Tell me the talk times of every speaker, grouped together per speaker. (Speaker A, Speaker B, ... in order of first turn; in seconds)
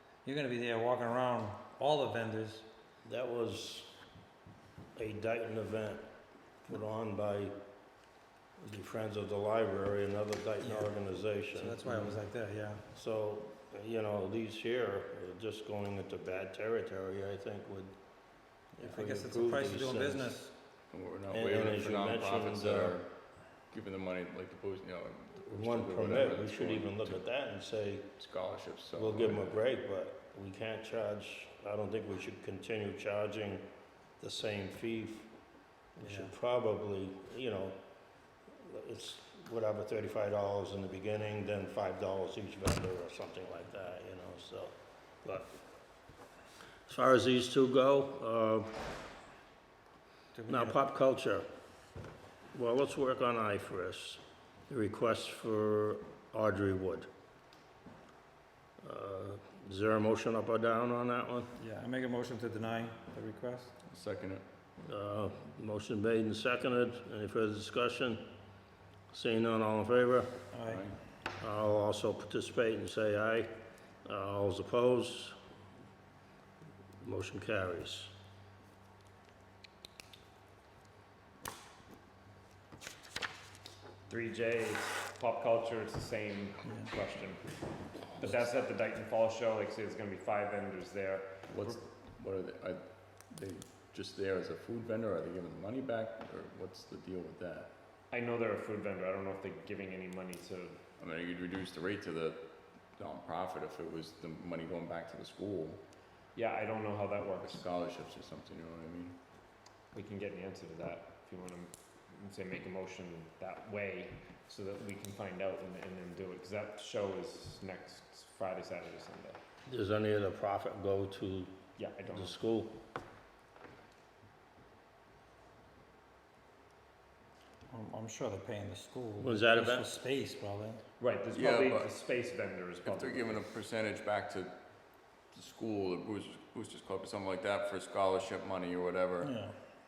Speaker A: 0.2-2.6, 10.6-10.9, 11.5-12.8, 18.8-20.5, 36.0-36.3, 50.3-50.8, 61.6-63.7, 70.5-70.9, 127.7-130.8
Speaker B: 3.0-3.9, 5.0-6.1, 6.6-7.5, 8.6-12.2, 12.9-20.4, 21.3-23.0, 25.5-28.1, 28.9-35.3, 36.0-45.6, 46.9-48.8, 50.5-51.5, 52.5-57.1, 58.8-61.5, 64.8-68.3, 69.1-70.5, 71.4-73.5, 74.0-75.4, 77.0-78.1, 119.7-121.5, 122.1-122.8, 129.2-129.9, 139.2-139.6
Speaker C: 20.9-27.2, 28.2-29.6, 63.9-64.4, 70.7-71.0, 91.5-97.7, 101.0-105.8, 107.4-109.2, 131.3-131.9, 132.8-139.4
Speaker D: 84.1-87.5, 88.2-91.8, 98.1-100.8, 106.3-107.6, 109.9-119.4, 121.8-122.3, 131.0-133.4